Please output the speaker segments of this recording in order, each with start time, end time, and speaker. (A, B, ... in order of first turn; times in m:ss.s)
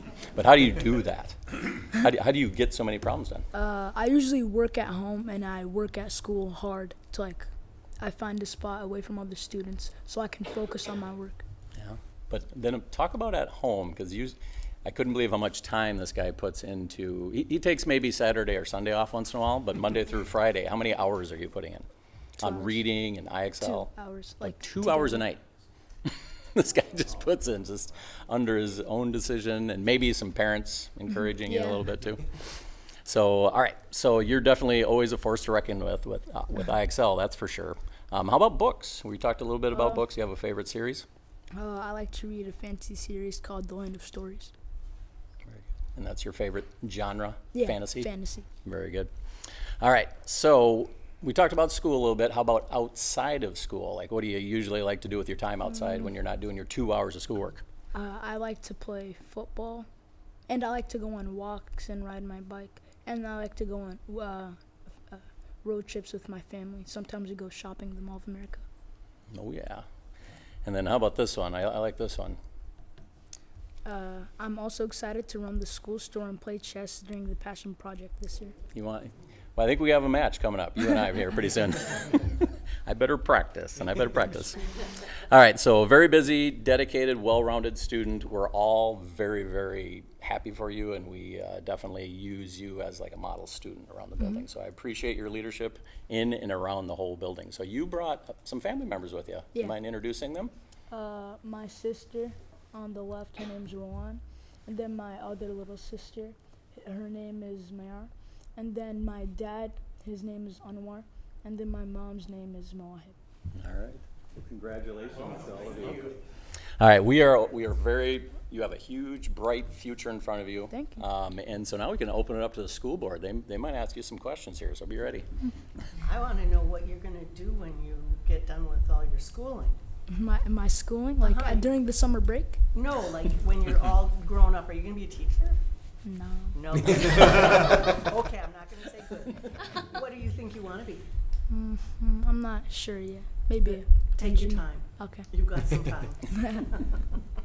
0:00.3-0:03.4 A
0:03.5-0:07.5 B
0:08.0-0:11.4 B
0:11.8-0:21.8 A
0:22.4-0:23.9 A
0:22.4-0:22.8 B
0:23.6-0:25.2 B
0:24.4-0:25.4 A
0:26.0-0:32.2 A
0:31.4-0:31.8 B
0:33.0-0:41.0 A
0:39.7-0:40.0 B
0:41.6-0:44.5 B
0:45.4-0:48.1 A
0:47.5-0:48.5 B
0:48.6-0:49.1 A
0:49.8-0:57.6 A
0:57.9-0:59.9 B
1:00.5-1:04.6 B
1:05.1-1:08.6 B
1:09.3-1:09.8 A
1:10.6-1:12.4 A
1:13.8-1:18.5 B
1:18.7-1:40.5 A
1:40.9-1:53.1 B
1:53.5-1:56.2 A
1:56.8-2:05.3 A
2:00.7-2:01.0 B
2:06.0-2:09.8 C
2:10.1-2:12.6 B
2:11.2-2:11.6 C
2:12.7-2:15.6 C
2:16.0-2:16.6 B
2:16.5-2:21.0 C
2:21.5-2:25.3 B
2:23.6-2:26.8 C
2:26.4-2:26.6 B